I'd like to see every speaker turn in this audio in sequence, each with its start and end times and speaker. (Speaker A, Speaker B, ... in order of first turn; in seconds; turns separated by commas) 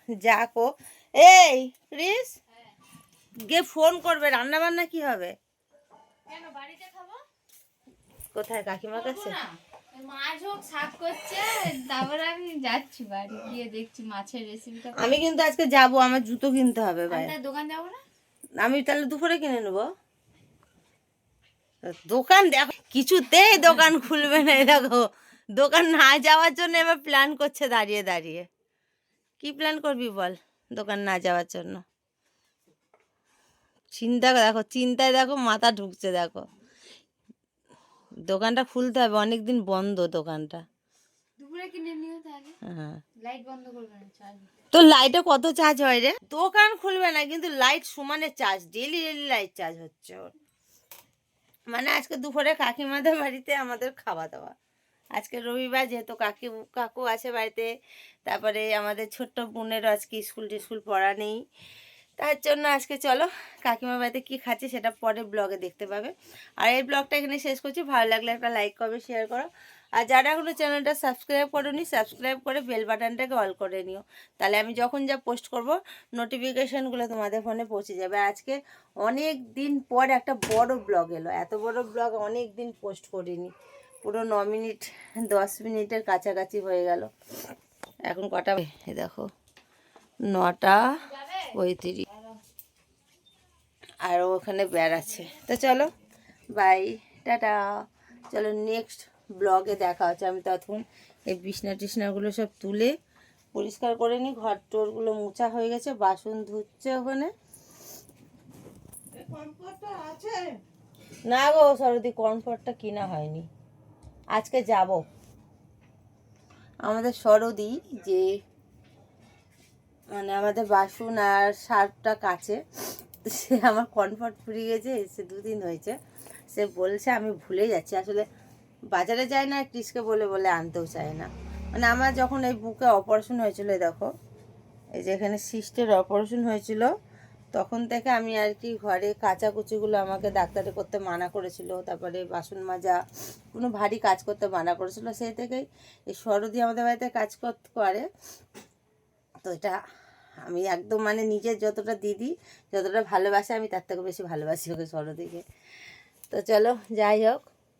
Speaker A: 0.2-2.4, Speaker A: 3.5-5.3, Speaker B: 6.3-7.2, Speaker A: 8.3-9.3, Speaker B: 8.9-15.2, Speaker A: 14.9-17.3, Speaker B: 17.1-18.0, Speaker A: 18.6-19.9, Speaker A: 21.9-25.0, Speaker A: 25.6-28.4, Speaker A: 29.4-31.8, Speaker A: 33.9-36.4, Speaker A: 38.3-40.6, Speaker B: 41.4-42.6, Speaker A: 42.6-43.0, Speaker B: 43.2-44.5, Speaker A: 44.7-50.3, Speaker A: 51.7-54.5, Speaker A: 55.2-57.7, Speaker A: 58.2-61.4, Speaker A: 62.2-83.5, Speaker A: 84.0-87.1, Speaker A: 88.1-89.3, Speaker A: 90.3-90.8, Speaker B: 91.1-91.5, Speaker A: 91.5-92.0, Speaker A: 94.0-95.9, Speaker A: 96.6-97.6, Speaker A: 98.3-102.9, Speaker A: 103.5-107.3, Speaker A: 109.2-110.5, Speaker A: 111.3-113.5, Speaker A: 114.3-115.0, Speaker A: 116.8-118.4, Speaker A: 120.1-122.6, Speaker A: 123.1-126.0, Speaker A: 126.5-128.2, Speaker A: 128.9-134.1, Speaker A: 135.0-136.9, Speaker A: 137.5-143.0, Speaker A: 143.5-148.0, Speaker A: 149.4-149.8, Speaker A: 150.5-155.4, Speaker A: 156.3-157.4